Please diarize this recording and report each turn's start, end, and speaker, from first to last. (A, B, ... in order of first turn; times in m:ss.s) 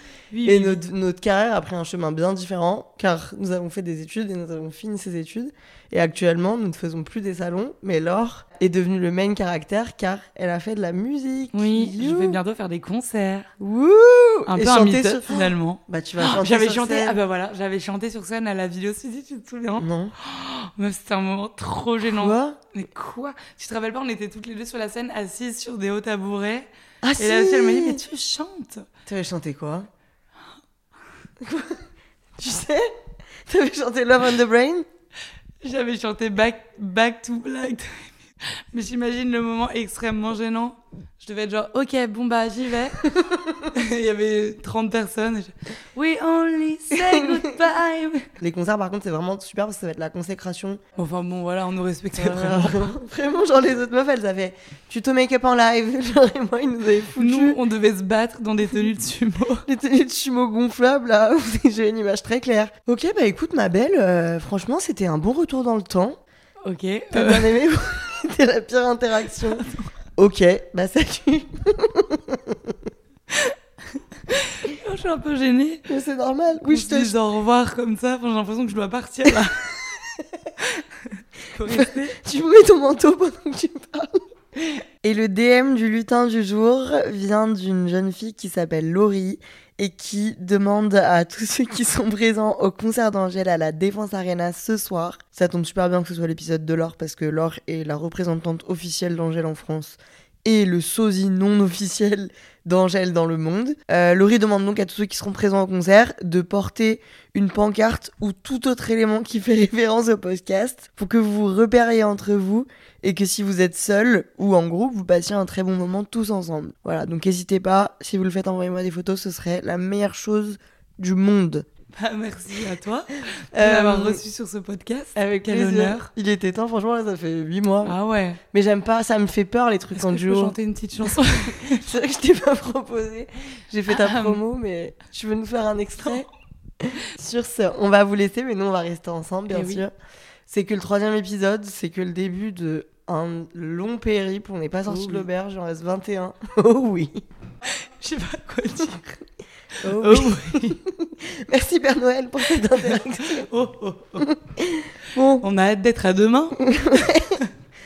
0:00.3-0:00.8 A
0:00.4-0:12.4 B
0:11.5-0:13.5 A
0:13.6-0:17.2 B
0:14.5-0:28.8 A
0:19.8-0:20.1 B
0:22.1-0:22.6 B
0:27.0-0:28.0 B
0:29.0-0:29.9 B
0:31.4-0:31.8 B
0:32.4-0:32.8 B
0:33.5-0:34.8 B
0:35.6-0:43.1 A
0:43.1-0:43.6 B
0:43.7-0:48.3 A
0:46.9-0:47.5 B
0:48.4-0:50.8 B
0:50.9-0:52.9 A
0:52.2-0:57.6 B
0:57.2-0:59.6 A
0:59.6-1:06.2 B
1:06.6-1:07.6 A
1:07.1-1:09.6 B
1:10.2-1:12.7 B
1:14.3-1:15.9 A
1:15.9-1:17.2 B
1:16.6-1:19.8 A
1:21.4-1:22.2 A
1:21.6-1:24.2 B
1:25.0-2:01.6 B
2:01.9-2:06.1 A
2:03.5-2:04.2 B
2:05.1-2:08.0 B
2:07.8-2:08.4 A
2:08.5-2:16.3 B
2:10.0-2:11.8 A
2:13.9-2:14.4 A
2:16.8-2:19.9 B
2:19.5-2:19.8 A
2:20.5-2:27.2 B
2:24.8-2:25.3 A
2:27.7-2:29.2 A
2:29.8-2:30.8 A
2:29.8-2:33.5 B
2:32.8-2:34.3 A
2:34.2-2:35.4 B
2:35.4-2:36.6 A
2:36.6-2:37.4 B